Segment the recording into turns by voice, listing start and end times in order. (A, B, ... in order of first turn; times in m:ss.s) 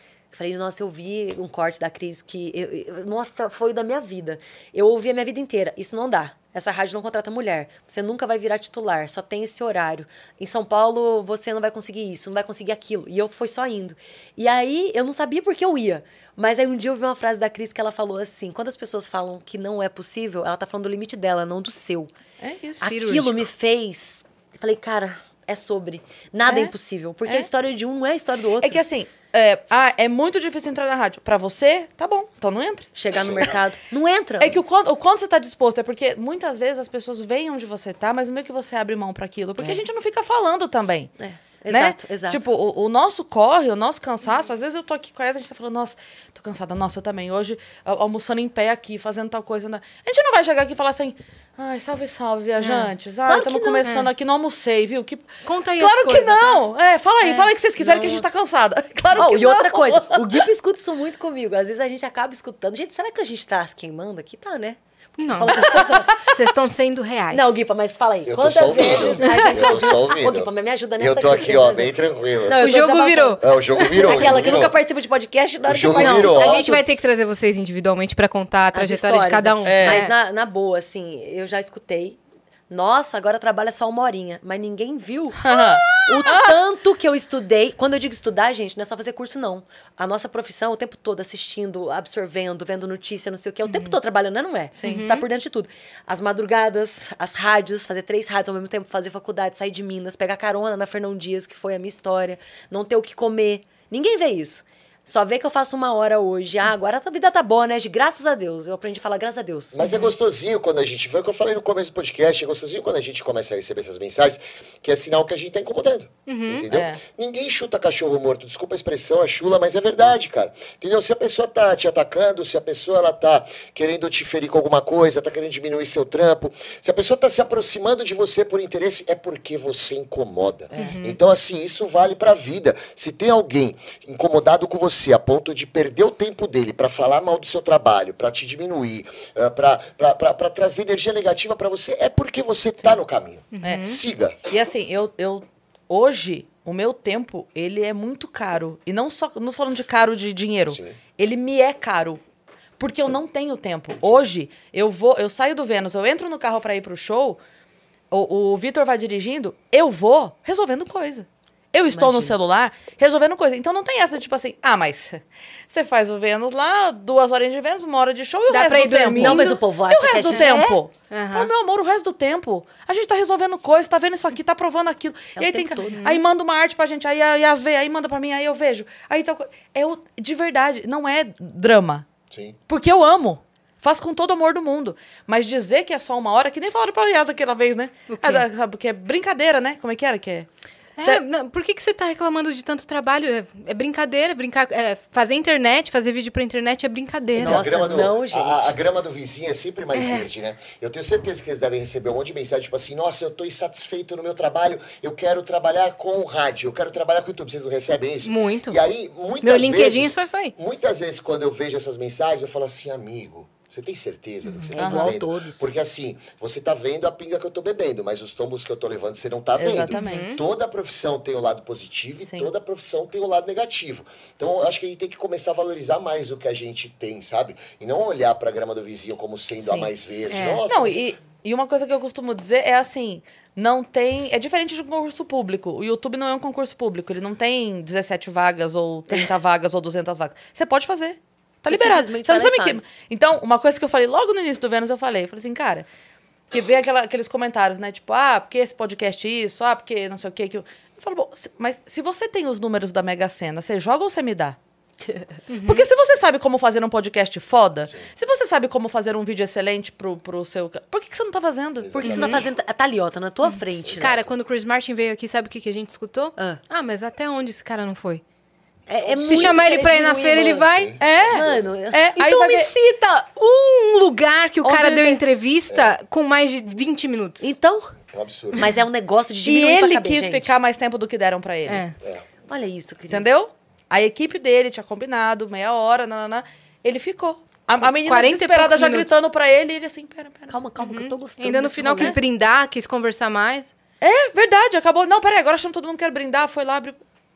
0:00.3-0:22.1 A
0:22.4-0:23.0 B
0:22.8-0:28.8 A
0:22.8-0:23.4 C
0:26.5-0:26.7 B
0:28.6-0:32.9 B
0:33.0-0:34.6 A
0:33.1-0:33.5 D
0:34.4-0:41.1 B
0:41.2-0:42.4 A
0:41.7-1:00.4 B
0:52.6-0:52.9 C
0:53.3-0:53.9 A
0:53.8-0:54.1 C
0:55.4-0:56.6 C
0:57.2-0:58.3 A
0:59.2-1:06.2 A
1:05.2-1:07.6 C
1:05.6-1:05.8 B
1:07.3-1:16.8 A
1:08.3-1:12.7 D
1:09.2-1:09.8 C
1:12.6-1:13.4 C
1:13.4-1:14.8 D
1:15.7-1:16.8 D
1:16.0-1:20.1 C
1:18.7-1:22.2 A
1:19.6-1:20.1 B
1:22.7-1:25.4 A
1:25.4-1:26.6 B
1:26.0-1:49.8 A
1:34.8-1:35.1 B
1:34.8-1:35.2 C
1:49.7-2:24.4 D
1:49.8-1:50.1 C
1:56.3-1:56.7 C
1:56.7-1:57.0 B
2:10.7-2:11.0 B
2:10.8-2:11.2 C
2:23.5-2:24.0 C
2:24.5-2:32.2 B
2:30.7-2:31.0 D
2:32.8-2:37.4 B
2:38.1-3:02.1 B
2:41.9-2:42.4 A
2:48.5-2:49.6 C
2:49.2-2:50.8 A
2:51.1-2:51.5 C
2:55.4-2:56.1 A
2:56.0-2:56.2 C
3:02.3-3:02.6 D
3:02.7-3:10.5 B
3:08.1-3:08.5 C
3:11.0-3:17.9 C
3:17.4-3:18.8 A
3:17.4-3:51.1 D
3:20.0-3:20.3 C
3:28.2-3:28.8 C
3:29.4-3:30.5 C
3:34.5-3:34.7 C
3:34.7-3:35.7 A
3:34.8-3:35.2 B
3:39.6-3:40.2 B
3:39.9-3:40.4 C
3:50.3-3:50.6 C
3:50.7-4:05.9 B
4:01.7-4:02.9 A
4:06.5-4:14.6 B
4:15.5-4:15.9 C
4:15.6-4:22.4 B
4:21.8-4:22.5 D
4:22.0-4:24.2 A
4:22.1-4:22.4 C
4:23.8-4:24.3 D
4:24.0-4:28.2 C
4:28.9-4:30.7 A
4:29.0-4:29.6 D
4:29.2-4:31.0 C
4:30.7-4:31.7 D
4:31.0-4:32.7 B
4:31.3-4:32.0 A
4:32.2-4:37.5 C
4:34.6-4:35.2 B
4:37.4-4:37.9 A
4:38.1-4:38.7 D
4:38.6-4:40.5 A
4:39.4-4:41.8 B
4:41.7-4:42.0 C
4:42.5-4:43.3 A
4:43.1-4:50.6 B
4:48.0-4:49.1 C
4:50.5-4:52.2 A
4:50.8-4:53.7 C
4:54.0-4:57.0 B